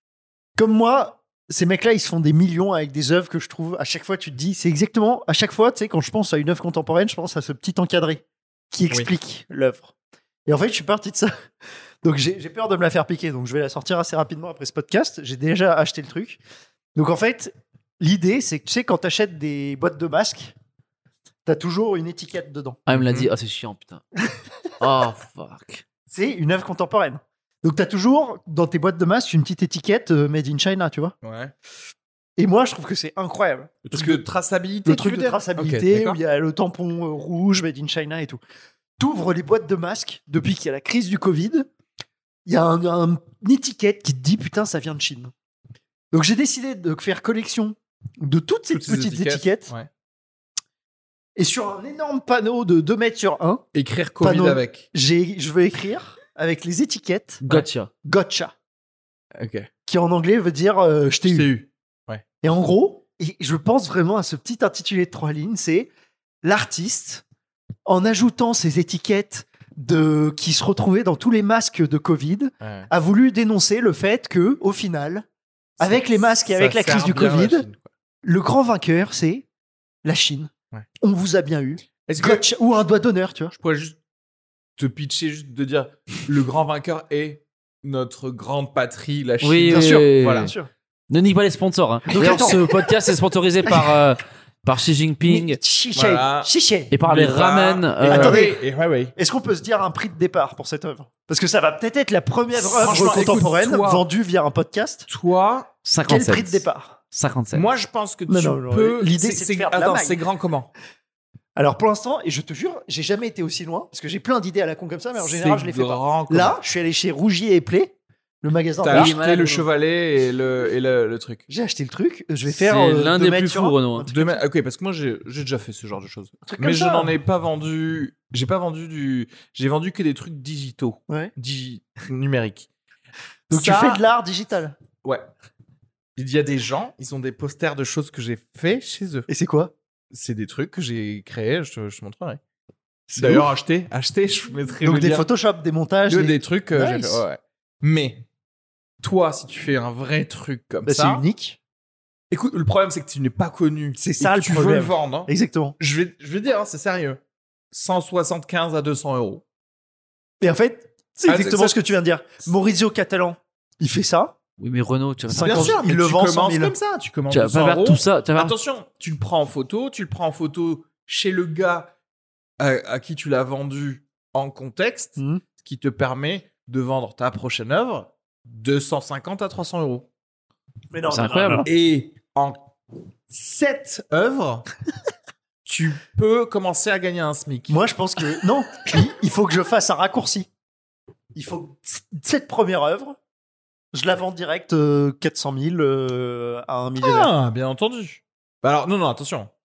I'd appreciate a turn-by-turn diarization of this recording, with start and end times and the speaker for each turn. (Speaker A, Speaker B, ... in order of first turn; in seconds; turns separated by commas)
Speaker A: 0.6-9.9, Speaker A: 10.5-11.3, Speaker A: 12.0-16.4, Speaker A: 16.9-20.5, Speaker A: 21.4-22.8, Speaker B: 22.9-24.0, Speaker C: 22.9-23.3, Speaker B: 24.8-25.8, Speaker A: 26.1-31.1, Speaker C: 31.2-31.5, Speaker A: 32.4-34.2, Speaker C: 33.9-36.2, Speaker A: 34.9-38.4, Speaker A: 39.0-41.7, Speaker A: 42.5-45.3, Speaker A: 46.1-49.7, Speaker C: 48.7-49.9, Speaker A: 51.4-53.6, Speaker C: 53.7-54.9, Speaker A: 54.2-57.4, Speaker B: 57.4-57.9, Speaker A: 58.0-58.5, Speaker C: 59.4-59.7, Speaker A: 59.9-61.5, Speaker C: 61.3-62.2, Speaker A: 62.4-65.9, Speaker A: 66.4-67.2, Speaker A: 67.9-75.3, Speaker C: 72.6-72.9, Speaker A: 75.8-77.7, Speaker C: 75.8-77.9, Speaker A: 78.2-79.5, Speaker A: 80.0-83.5, Speaker C: 82.0-82.5, Speaker C: 83.5-84.0, Speaker C: 84.8-90.5, Speaker B: 89.4-90.5, Speaker A: 89.7-90.7, Speaker B: 91.1-95.6, Speaker A: 92.1-93.0, Speaker A: 93.7-94.0, Speaker A: 95.2-96.9, Speaker C: 96.0-96.5, Speaker B: 96.9-98.5, Speaker C: 97.0-99.1, Speaker A: 98.0-98.6, Speaker A: 99.2-105.1, Speaker C: 102.6-104.0, Speaker C: 105.1-105.7, Speaker B: 105.8-107.7, Speaker A: 106.1-107.0, Speaker C: 107.5-110.7, Speaker A: 108.3-110.2, Speaker A: 111.6-119.2, Speaker C: 115.2-116.6, Speaker C: 118.8-121.5, Speaker B: 118.9-119.7, Speaker A: 121.5-124.4, Speaker B: 122.5-124.1, Speaker C: 124.1-132.7, Speaker A: 126.5-127.1, Speaker C: 133.5-134.0, Speaker A: 133.5-134.8, Speaker C: 136.2-139.3, Speaker A: 139.3-139.7, Speaker C: 140.1-142.4, Speaker A: 143.1-143.5, Speaker C: 143.2-145.3, Speaker A: 144.8-147.2, Speaker C: 146.1-148.2, Speaker C: 149.0-151.2, Speaker A: 150.8-151.6, Speaker C: 152.3-157.2, Speaker A: 154.0-155.8, Speaker C: 157.7-159.4, Speaker A: 160.4-164.3, Speaker C: 161.3-161.8, Speaker B: 164.6-165.8, Speaker A: 165.3-166.8, Speaker C: 165.4-171.9, Speaker B: 167.3-168.6, Speaker C: 172.6-180.1, Speaker A: 175.2-175.4, Speaker A: 180.9-181.7, Speaker B: 181.1-181.7, Speaker C: 181.7-182.7, Speaker C: 183.3-184.7, Speaker C: 185.7-187.8, Speaker A: 187.7-190.5, Speaker A: 191.3-193.2, Speaker A: 193.9-197.3, Speaker C: 197.0-199.5